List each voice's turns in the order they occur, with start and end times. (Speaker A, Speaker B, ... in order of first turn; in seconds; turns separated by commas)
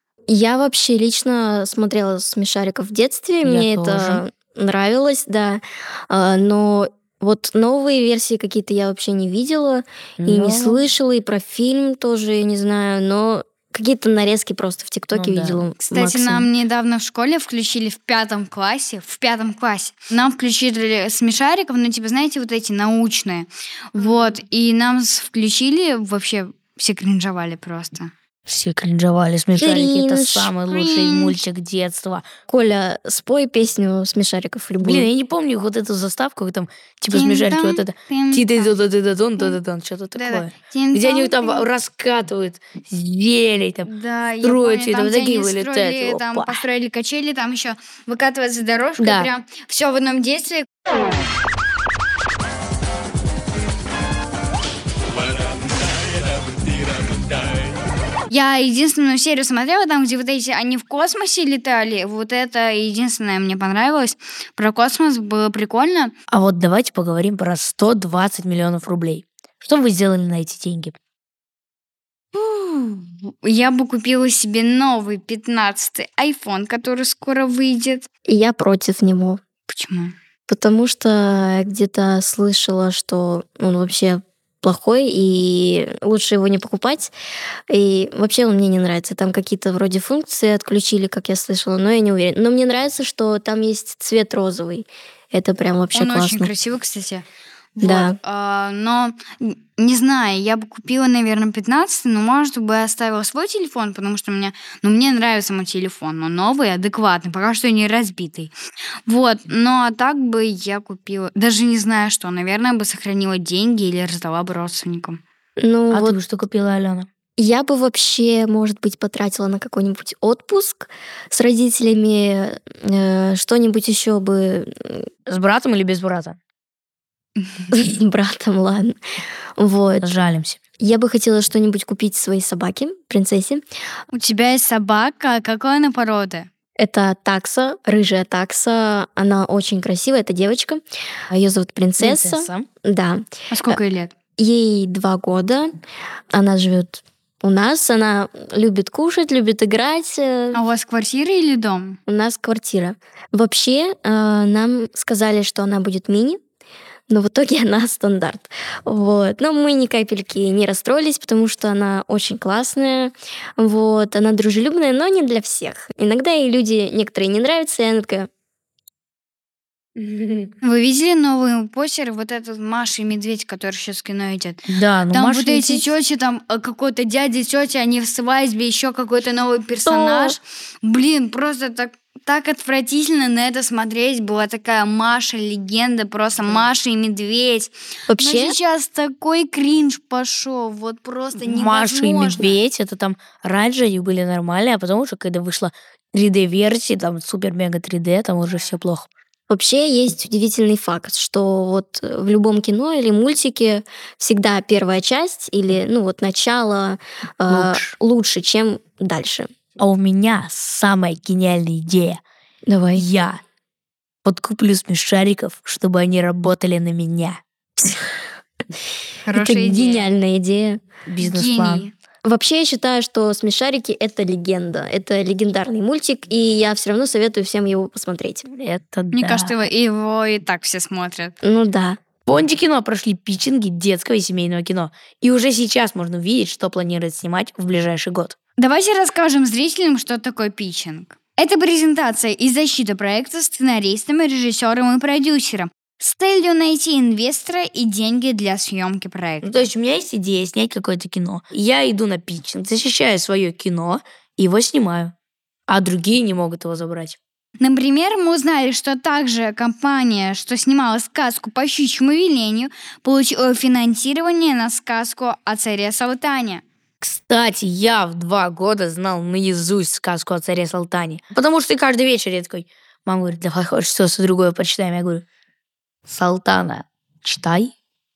Speaker A: 0.3-16.5, Speaker B: 3.4-4.2, Speaker B: 10.2-10.8, Speaker B: 15.1-15.6, Speaker C: 15.9-28.1, Speaker B: 28.5-32.2, Speaker A: 29.6-30.5, Speaker C: 30.7-31.4, Speaker A: 32.5-35.1, Speaker B: 34.8-43.9, Speaker C: 37.1-38.7, Speaker C: 40.2-41.6, Speaker C: 43.9-50.7, Speaker B: 44.4-46.6, Speaker B: 49.0-49.3, Speaker C: 58.3-66.1, Speaker B: 66.3-71.0, Speaker C: 72.3-78.1, Speaker A: 78.3-79.4, Speaker C: 79.7-80.1, Speaker A: 80.5-87.1, Speaker A: 87.7-96.5, Speaker C: 95.9-97.2, Speaker C: 97.8-108.5, Speaker A: 97.8-98.2, Speaker C: 109.1-115.2, Speaker A: 115.6-116.2, Speaker B: 115.9-117.1, Speaker A: 117.4-125.1, Speaker B: 125.3-126.4, Speaker C: 127.4-127.7, Speaker A: 127.7-129.0, Speaker A: 129.6-130.1, Speaker B: 130.0-130.6, Speaker A: 130.8-133.6, Speaker C: 134.1-136.5, Speaker A: 136.8-143.8, Speaker B: 142.0-142.7, Speaker C: 143.5-144.1, Speaker A: 144.4-145.7, Speaker A: 146.3-150.6, Speaker C: 150.5-152.0, Speaker A: 152.1-156.4, Speaker A: 157.1-168.3, Speaker B: 170.0-170.5, Speaker C: 170.6-192.5, Speaker B: 174.7-175.8, Speaker A: 179.9-180.3, Speaker A: 188.1-188.6, Speaker B: 191.4-199.1, Speaker A: 199.5-209.5, Speaker B: 207.5-208.0, Speaker B: 209.8-212.2, Speaker A: 212.7-213.1, Speaker B: 213.0-213.4, Speaker B: 214.2-217.4, Speaker C: 219.3-220.1, Speaker A: 219.3-220.8, Speaker B: 221.1-221.9, Speaker C: 221.2-221.9, Speaker A: 222.2-228.4, Speaker B: 228.5-229.6, Speaker C: 229.1-231.3, Speaker A: 231.4-232.0, Speaker B: 232.3-238.4, Speaker C: 238.6-249.5, Speaker B: 249.4-255.1, Speaker B: 255.7-257.2, Speaker C: 257.6-266.6, Speaker B: 267.0-275.2, Speaker B: 276.1-277.7